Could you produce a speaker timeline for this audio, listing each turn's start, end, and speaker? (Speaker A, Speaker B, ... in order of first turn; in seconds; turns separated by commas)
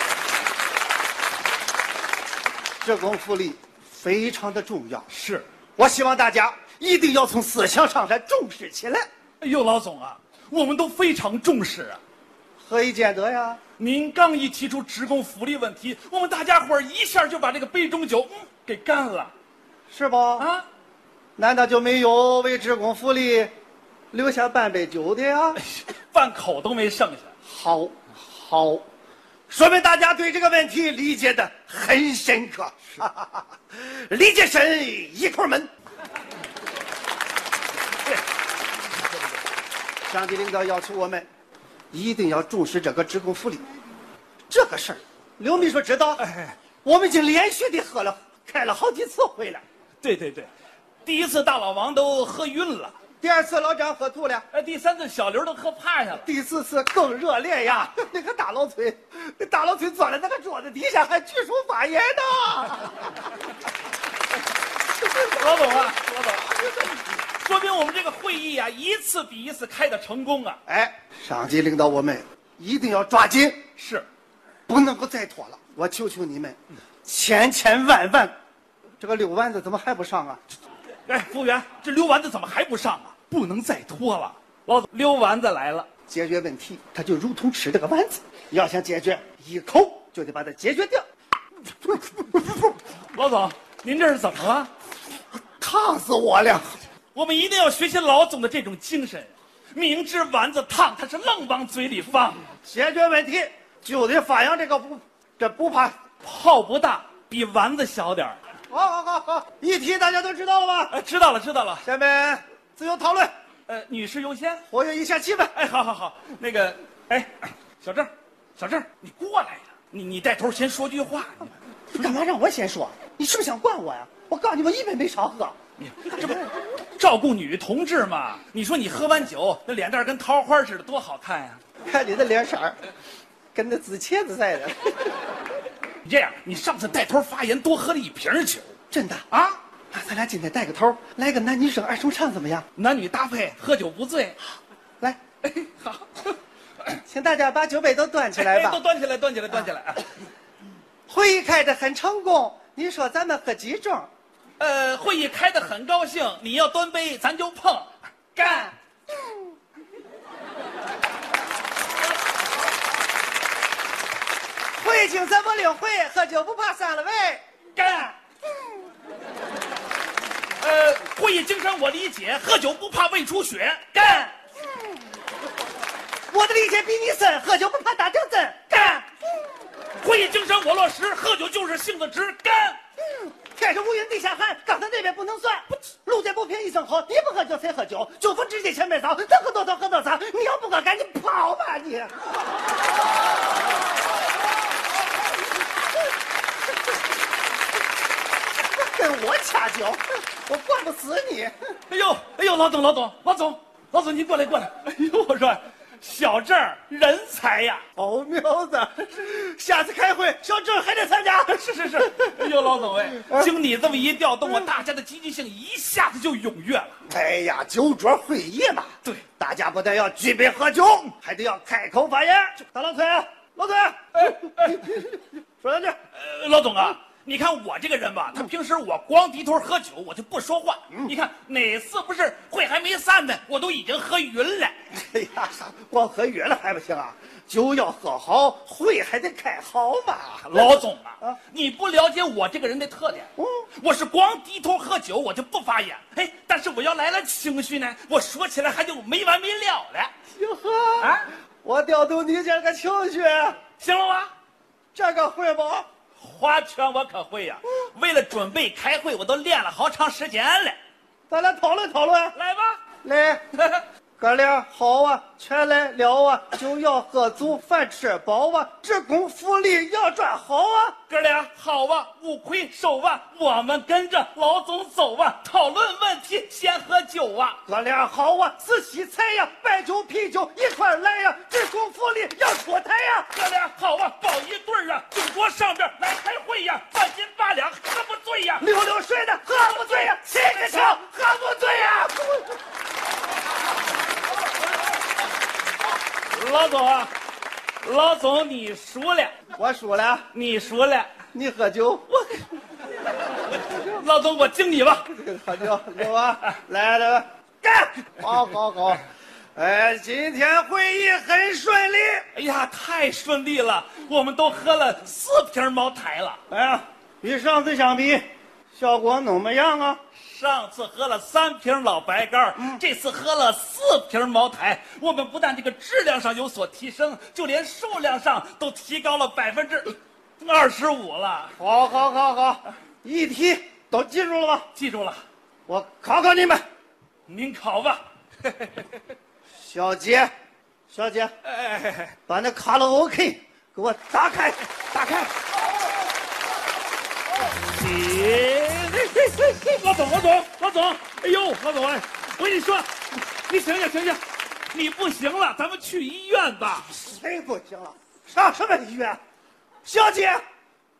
Speaker A: 2.8-5.1, Speaker B: 5.1-5.5, Speaker A: 5.8-9.1, Speaker B: 9.4-12.0, Speaker A: 12.6-13.6, Speaker B: 13.8-19.3, Speaker A: 19.9-20.5, Speaker B: 20.4-20.7, Speaker A: 21.4-23.5, Speaker A: 24.1-25.6, Speaker B: 25.6-27.3, Speaker A: 27.4-28.8, Speaker A: 29.5-35.7, Speaker A: 40.1-41.3, Speaker A: 41.9-43.7, Speaker A: 44.5-46.3, Speaker B: 46.2-46.6, Speaker A: 46.9-49.6, Speaker B: 50.0-50.5, Speaker B: 51.0-53.0, Speaker A: 53.2-54.5, Speaker B: 54.5-56.3, Speaker A: 56.1-63.3, Speaker A: 65.0-65.8, Speaker B: 65.3-70.6, Speaker A: 70.7-73.6, Speaker B: 73.8-74.1, Speaker A: 74.7-78.3, Speaker A: 79.0-80.4, Speaker B: 81.1-85.9, Speaker A: 86.1-91.0, Speaker A: 91.8-92.8, Speaker B: 93.1-94.7, Speaker A: 95.6-96.8, Speaker B: 97.1-102.5, Speaker A: 102.6-106.0, Speaker B: 106.2-108.4, Speaker A: 108.7-111.0, Speaker B: 110.9-111.8, Speaker A: 111.8-113.3, Speaker B: 113.7-114.6, Speaker A: 114.7-115.5, Speaker B: 115.5-122.1, Speaker A: 121.9-125.6, Speaker B: 125.8-131.6, Speaker A: 131.9-132.8, Speaker A: 133.6-135.0, Speaker B: 136.0-138.7, Speaker A: 138.9-139.3, Speaker B: 139.3-139.6, Speaker A: 139.9-142.7, Speaker B: 142.8-144.4, Speaker B: 145.4-147.0, Speaker A: 147.0-148.8, Speaker B: 148.3-150.2, Speaker A: 151.1-154.1, Speaker B: 154.6-158.7, Speaker A: 164.8-168.1, Speaker B: 167.8-168.1, Speaker B: 170.6-174.3, Speaker A: 176.3-179.1, Speaker B: 180.0-182.8, Speaker A: 183.2-192.2, Speaker A: 198.8-201.5, Speaker B: 201.9-207.8, Speaker A: 208.0-213.5, Speaker B: 211.5-217.0, Speaker A: 217.1-226.0, Speaker B: 224.2-225.0, Speaker B: 226.1-234.8, Speaker A: 234.9-241.4, Speaker B: 240.4-250.1, Speaker A: 243.4-243.7, Speaker A: 250.3-253.6, Speaker B: 251.0-251.3, Speaker B: 253.8-254.3, Speaker A: 254.9-255.9, Speaker B: 256.2-260.8, Speaker A: 261.3-262.4, Speaker B: 262.4-262.8, Speaker A: 263.0-263.4, Speaker B: 263.6-263.8, Speaker A: 264.2-271.0, Speaker B: 271.1-277.6, Speaker A: 277.7-283.3, Speaker B: 283.3-288.7, Speaker A: 288.6-292.6, Speaker B: 289.9-291.0, Speaker B: 296.3-297.1, Speaker B: 297.8-299.4, Speaker A: 299.6-300.3, Speaker B: 300.3-301.1, Speaker A: 301.3-302.1, Speaker B: 302.1-302.5, Speaker B: 303.4-305.1, Speaker A: 305.0-309.1, Speaker A: 309.6-312.3, Speaker B: 312.3-316.4, Speaker A: 316.5-320.0, Speaker B: 320.2-331.6, Speaker A: 331.6-334.7, Speaker B: 334.8-335.2, Speaker A: 335.7-336.6, Speaker B: 337.3-338.9, Speaker A: 339.6-340.3, Speaker A: 340.9-341.3, Speaker B: 341.4-342.2, Speaker A: 342.3-344.7, Speaker B: 344.9-345.3, Speaker B: 347.6-356.9, Speaker A: 356.9-359.2, Speaker A: 359.8-360.4